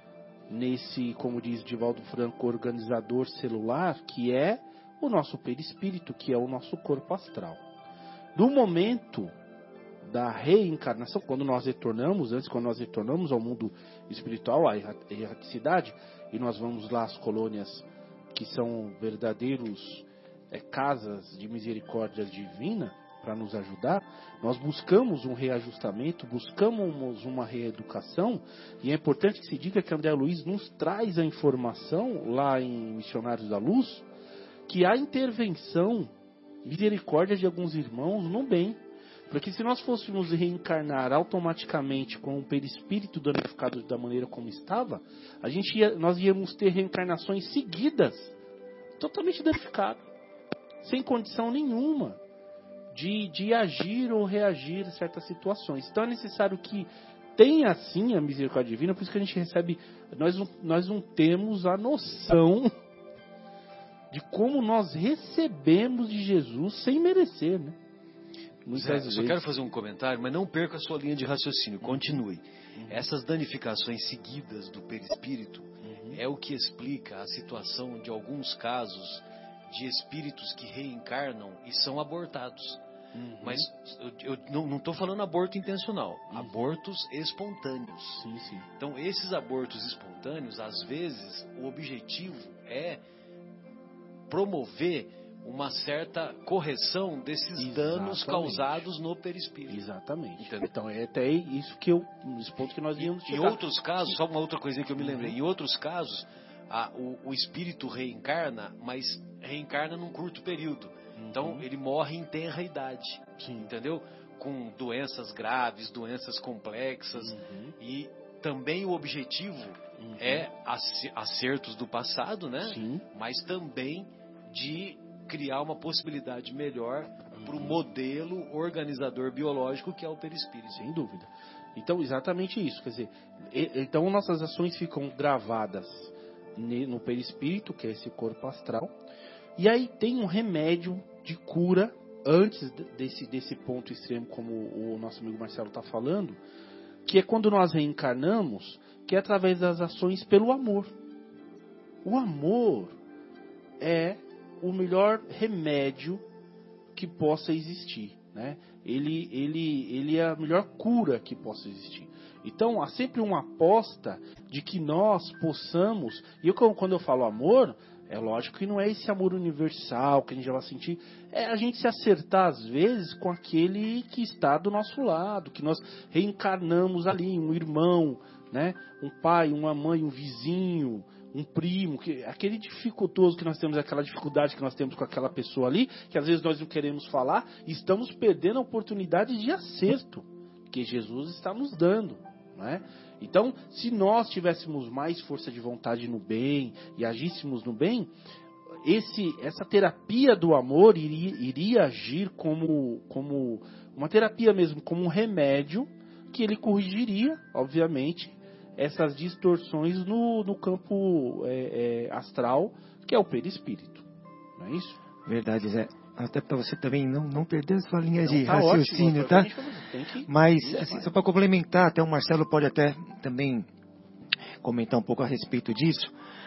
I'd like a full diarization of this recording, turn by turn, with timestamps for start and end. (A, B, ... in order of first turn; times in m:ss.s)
0:00.5-0:07.6 A
0:08.4-0:09.3 A
0:10.0-0:34.0 A
0:34.7-0:36.1 A
0:36.6-0:48.3 A
0:49.0-0:50.0 A
0:50.8-0:52.2 A
0:52.9-1:02.7 A
1:04.1-1:07.8 A
1:08.6-1:09.4 A
1:08.7-1:22.8 B
1:11.9-1:12.1 A
1:12.8-1:13.0 A
1:15.8-1:16.2 A
1:23.1-1:23.7 A
1:23.4-1:28.2 B
1:28.2-1:28.7 A
1:28.8-1:33.0 B
1:34.3-1:39.8 B
1:37.6-1:38.8 A
1:39.7-1:44.2 A
1:40.4-1:40.7 B
1:43.0-2:10.9 B
1:45.0-1:45.4 A
1:51.2-1:51.6 A
1:53.4-1:53.7 A
1:57.2-1:57.8 A
2:00.0-2:00.5 A
2:02.6-2:03.0 A
2:07.4-2:07.8 A
2:10.7-2:18.9 A
2:19.6-2:26.4 A
2:27.0-2:30.9 A
2:32.0-2:33.0 A
2:33.8-2:36.2 A
2:37.0-3:18.1 A
3:18.8-3:34.0 A
3:34.6-3:35.0 A
3:35.3-3:39.5 C
3:38.3-3:41.1 A
3:40.3-3:43.7 C
3:44.6-3:46.1 C